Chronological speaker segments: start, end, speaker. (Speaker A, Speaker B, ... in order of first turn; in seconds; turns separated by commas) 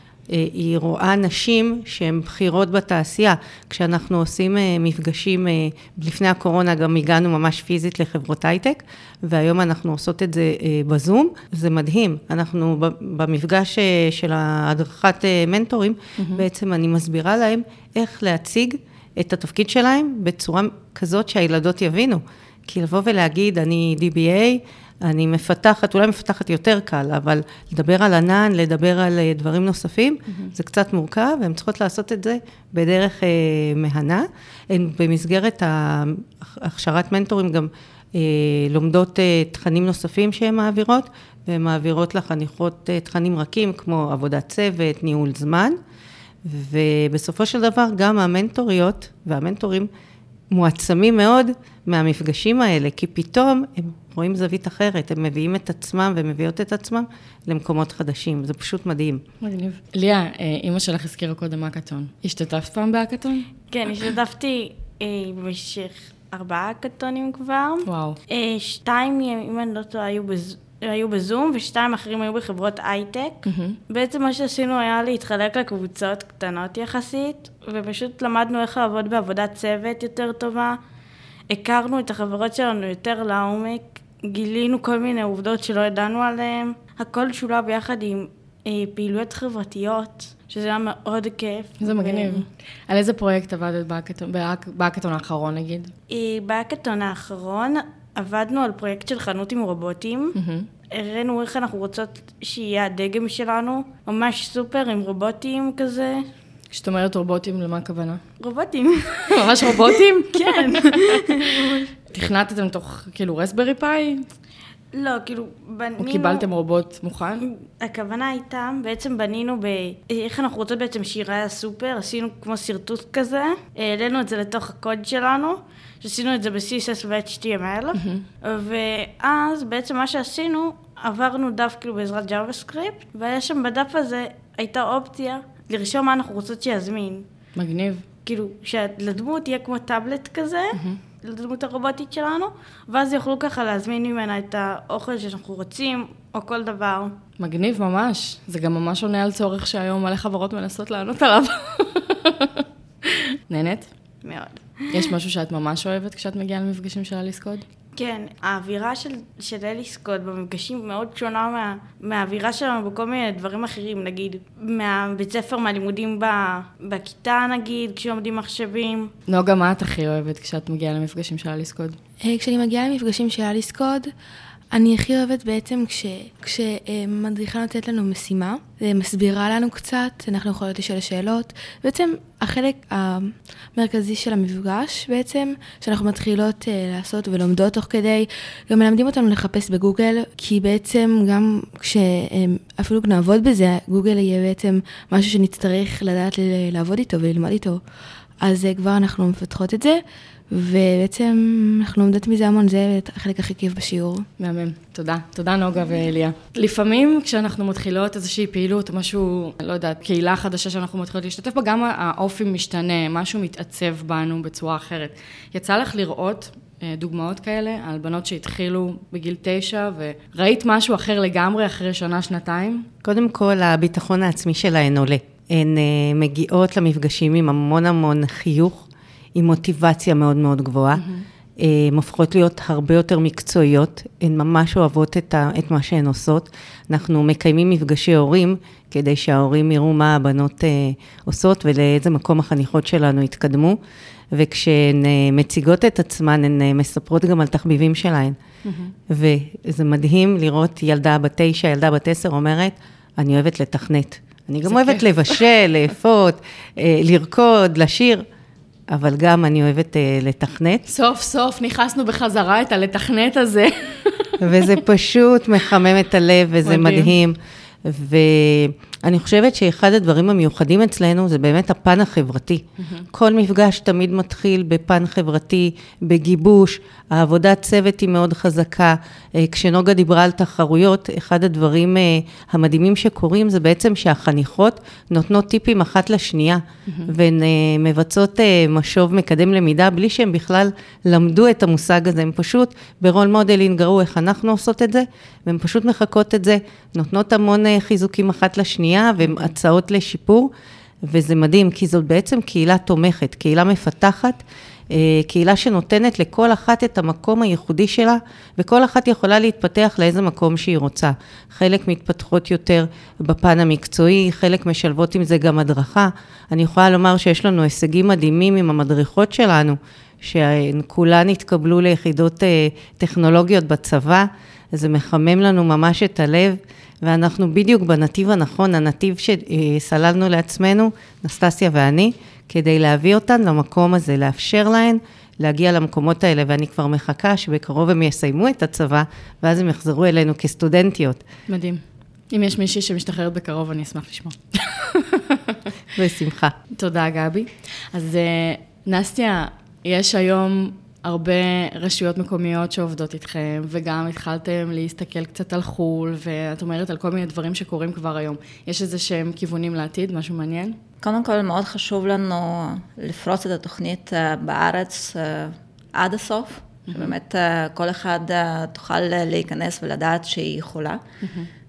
Speaker A: 0.3-45.8, Speaker B: 16.2-16.4, Speaker A: 46.4-49.9, Speaker A: 50.5-59.2, Speaker B: 59.4-63.5, Speaker C: 63.7-80.8, Speaker B: 67.9-68.2, Speaker B: 73.5-73.8, Speaker C: 81.5-92.5, Speaker B: 91.8-95.9, Speaker C: 96.1-100.4, Speaker B: 100.4-100.7, Speaker C: 100.9-106.2, Speaker B: 106.7-108.2, Speaker C: 108.4-111.9, Speaker B: 109.3-111.4, Speaker B: 112.1-114.3, Speaker C: 114.9-116.5, Speaker B: 116.0-117.4, Speaker C: 117.4-137.2, Speaker B: 128.0-128.2, Speaker B: 137.6-138.1, Speaker C: 138.2-147.2, Speaker B: 147.4-153.9, Speaker C: 154.2-155.1, Speaker B: 154.9-157.6, Speaker C: 157.9-169.1, Speaker B: 169.3-172.0, Speaker D: 172.2-174.1, Speaker D: 174.7-197.8, Speaker D: 198.4-204.3, Speaker B: 204.4-222.9, Speaker A: 223.0-231.1, Speaker B: 230.9-231.2, Speaker A: 231.6-243.8, Speaker A: 244.3-248.4, Speaker B: 248.6-248.9, Speaker A: 249.1-258.2, Speaker B: 254.7-255.4, Speaker A: 258.9-260.9, Speaker B: 260.9-264.8, Speaker A: 264.4-300.5, Speaker B: 266.6-267.1, Speaker B: 272.8-273.1, Speaker B: 299.2-299.5, Speaker A: 301.1-304.4, Speaker A: 304.9-341.2, Speaker B: 341.5-345.6, Speaker A: 345.9-346.6, Speaker B: 346.8-360.8, Speaker E: 361.0-371.0, Speaker B: 366.9-367.1, Speaker B: 371.2-371.5